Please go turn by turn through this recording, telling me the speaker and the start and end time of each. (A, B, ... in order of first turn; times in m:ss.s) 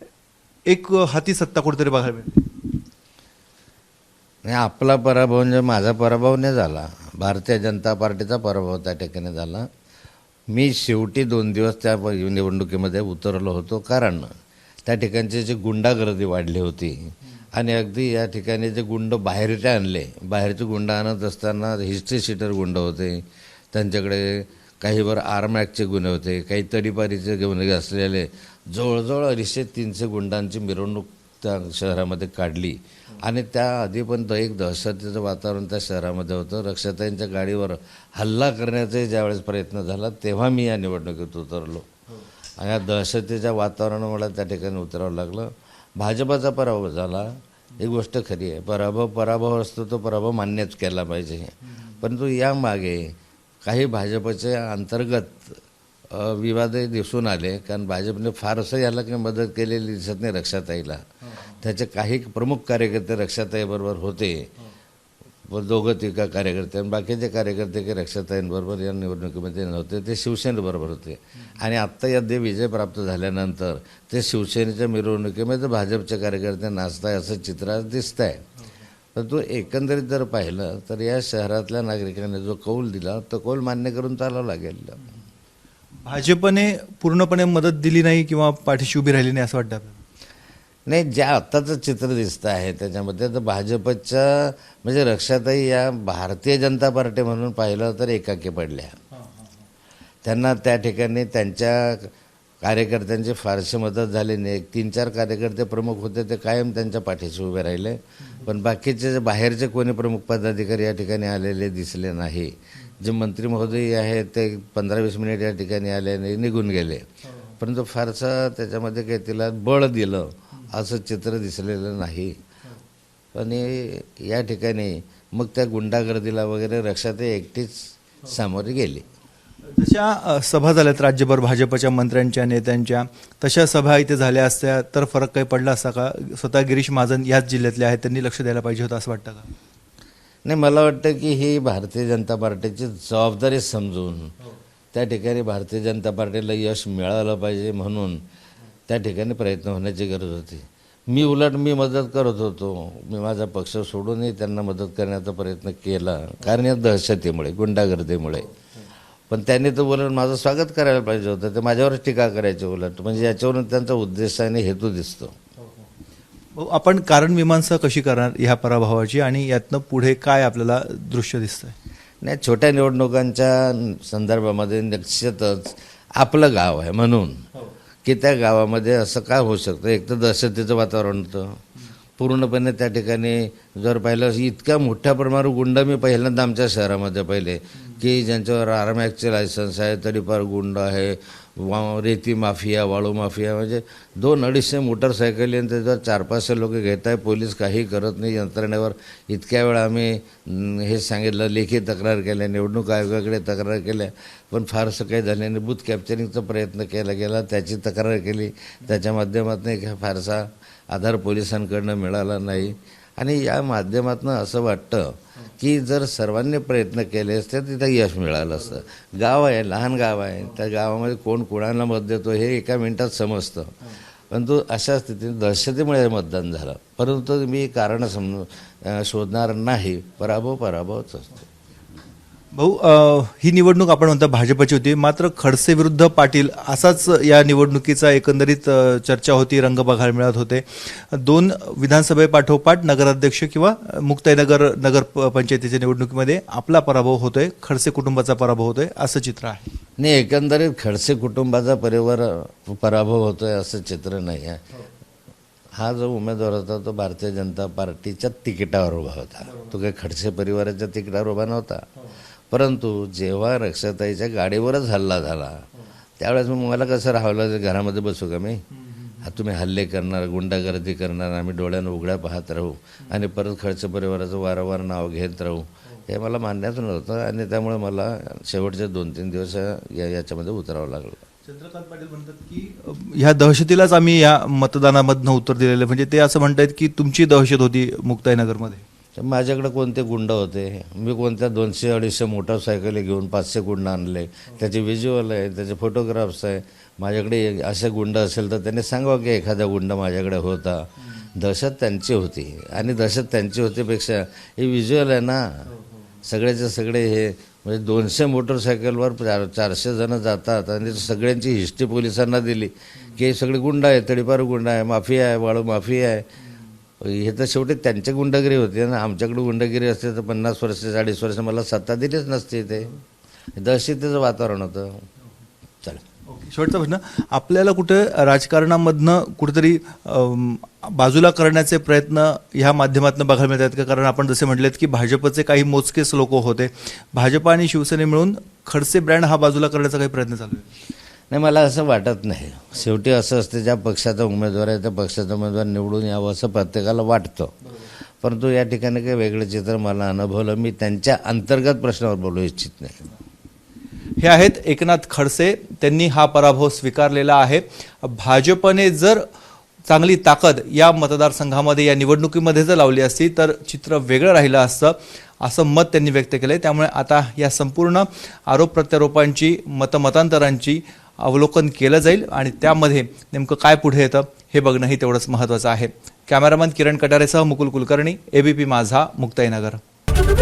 0:00.7-0:02.5 A
0:04.4-0:09.7 B
0:10.5-0:14.3 B
0:14.8-0:41.9 B
0:42.6-1:04.5 B
1:05.5-1:18.4 B
1:19.2-1:25.0 B
1:26.0-1:30.0 A
1:30.9-1:39.0 B
1:39.2-1:39.5 A
1:40.2-1:42.1 B
1:42.6-1:57.1 B
1:57.6-2:02.4 B
2:03.3-2:09.1 B
2:09.6-2:19.5 A
2:20.5-2:24.3 B
2:24.9-2:28.2 B
2:28.9-2:38.5 B
2:39.3-2:45.4 B
2:46.6-2:51.8 A
2:52.2-2:57.4 B
2:58.0-3:01.6 B
3:02.2-3:51.4 B
3:52.5-4:09.7 A
4:10.0-4:14.6 B
4:15.8-4:21.9 B
4:22.5-4:25.7 B
4:26.2-4:28.6 B
4:28.9-4:29.2 A
4:29.2-4:41.2 B
4:41.4-4:48.8 A
4:49.2-5:05.7 B
5:06.2-5:16.3 B
5:17.0-5:23.0 B
5:23.6-5:25.0 B
5:26.3-5:40.7 A
5:41.3-5:53.1 B
5:54.2-5:59.2 A
5:59.9-6:19.8 A